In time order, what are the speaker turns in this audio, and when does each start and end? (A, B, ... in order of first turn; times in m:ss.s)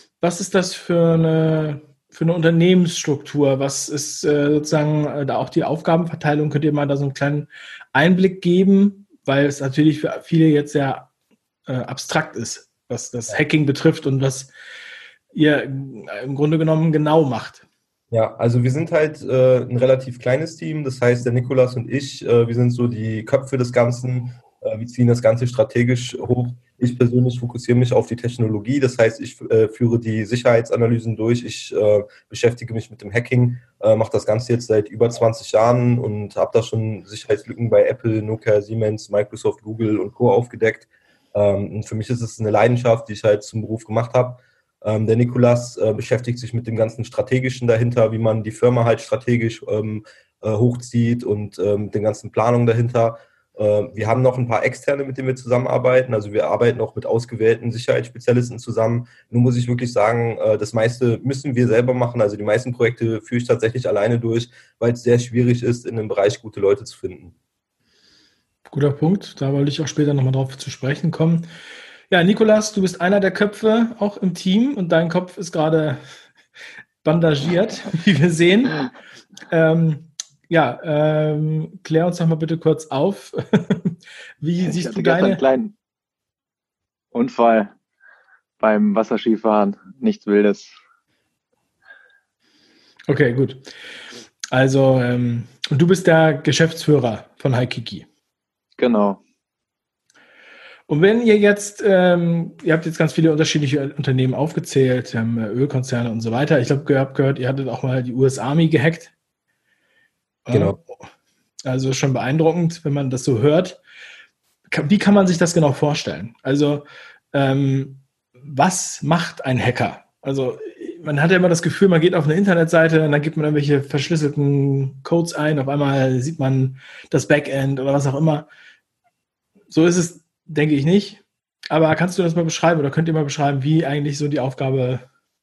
0:00.2-0:11.1 A
0:11.7-0:14.5 A
0:15.3-0:17.6 A
0:18.1-1:07.3 B
1:08.7-1:11.4 A
1:12.1-1:16.0 A
1:17.0-1:18.8 A
1:19.5-1:25.4 A
1:24.6-1:25.7 C
1:27.1-1:27.7 C
1:28.6-1:30.7 C
1:33.1-1:33.6 A
1:34.5-1:38.1 A
1:38.8-1:39.2 C
1:40.9-1:49.1 A
1:50.4-1:50.8 A
1:51.6-1:53.8 A
1:54.7-2:08.5 A
2:09.7-2:15.0 A